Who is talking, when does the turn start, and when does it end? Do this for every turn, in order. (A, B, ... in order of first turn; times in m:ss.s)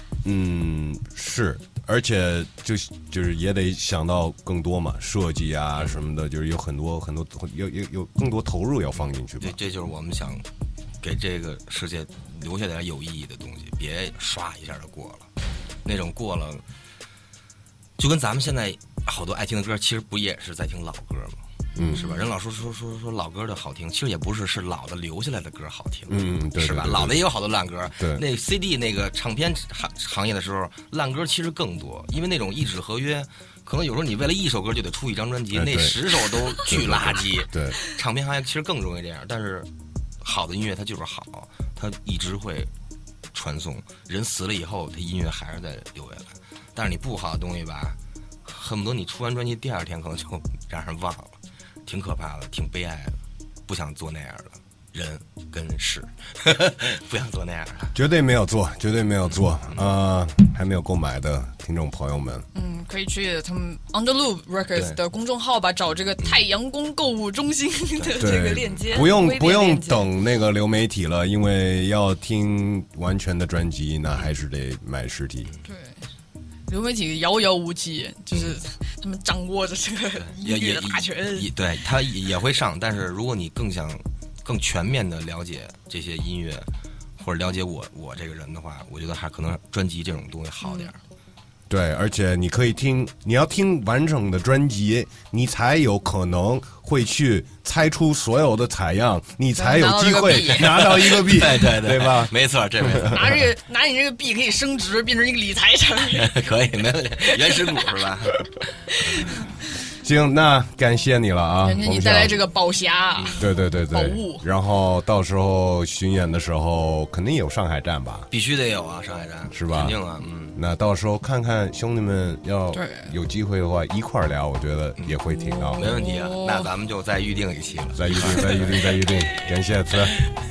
0:00.2-0:09.6 A
0:09.4-0:10.5 B
0:11.0-0:15.3 B
0:15.8-0:16.6 B
0:18.0-0:39.7 B
0:21.7-0:22.3 C
0:21.8-0:22.0 A
0:26.1-0:27.2 A
0:27.9-0:28.2 A
0:35.5-0:36.0 A
0:36.6-0:37.8 A
0:40.2-0:42.7 B
0:43.3-0:57.9 B
0:57.9-1:02.5 A
0:59.3-0:59.9 B
1:02.5-1:10.1 C
1:08.0-1:09.0 B
1:08.2-1:15.5 A
1:15.6-1:16.0 C
1:16.7-1:21.5 C
1:18.3-1:18.6 B
1:20.2-1:31.0 B
1:30.6-1:30.9 C
1:31.7-1:42.3 A
1:39.6-1:41.4 C
1:40.8-1:43.2 B
1:42.8-1:43.4 A
1:43.0-1:46.3 C
1:46.1-1:49.4 B
1:47.3-1:47.8 C
1:49.9-1:52.5 A
1:51.6-1:54.4 C
1:53.2-1:53.4 B
1:53.4-1:58.3 A
1:58.3-2:00.6 B
1:59.5-2:00.0 A
2:00.5-2:05.9 A
2:02.7-2:03.1 C
2:05.3-2:06.7 C
2:05.8-2:08.9 B
2:07.9-2:10.2 A